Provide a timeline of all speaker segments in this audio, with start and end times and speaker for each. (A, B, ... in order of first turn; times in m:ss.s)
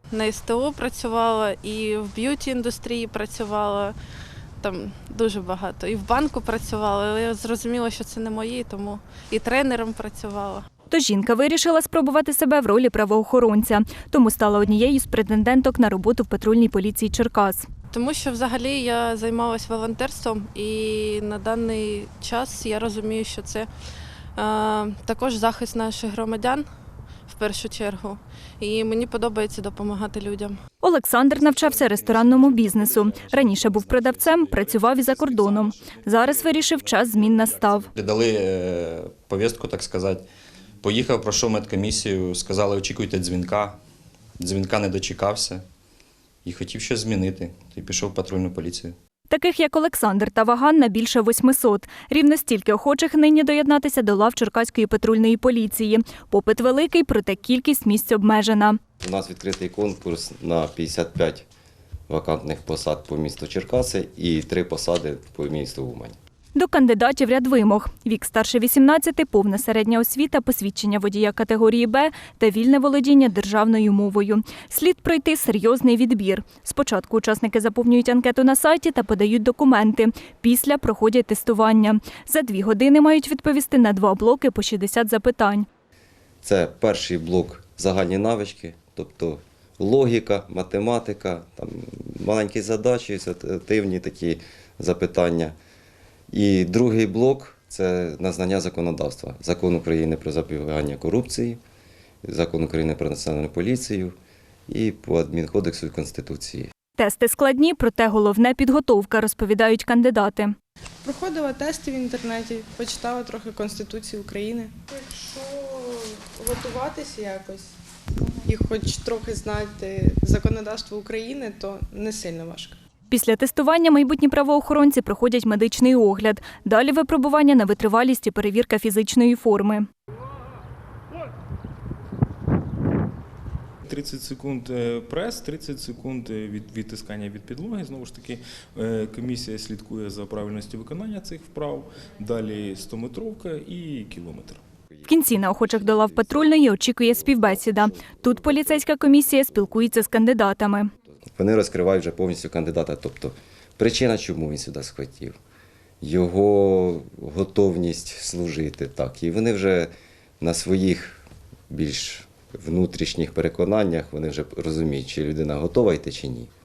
0:00.1-0:04.0 A
0:04.6-0:10.6 A
0:10.9-0:17.7 B
0:17.9-0:23.7 A
0:24.4-0:26.7 A
0:27.3-0:30.6 A
0:30.8-0:37.9 B
0:31.4-0:35.3 C
0:35.4-0:35.7 D
0:36.0-0:36.3 C
0:37.2-0:37.9 D
0:37.9-0:40.3 C
0:40.8-0:43.8 C
0:44.4-0:45.6 C
0:46.4-0:49.0 C
0:49.3-0:58.8 B
0:59.0-1:01.5 E
1:02.1-1:06.2 E
1:06.6-1:25.7 B
1:26.4-1:35.6 E
1:36.3-1:41.6 E
1:42.2-1:44.2 E
1:44.7-1:46.7 E
1:47.0-1:50.6 B
1:51.0-1:57.8 F
1:58.5-2:02.8 F
2:03.1-2:09.9 B
2:13.9-2:24.6 D
2:24.9-2:28.9 E
2:25.1-2:30.9 B
2:31.4-2:35.4 E
2:36.0-2:46.5 E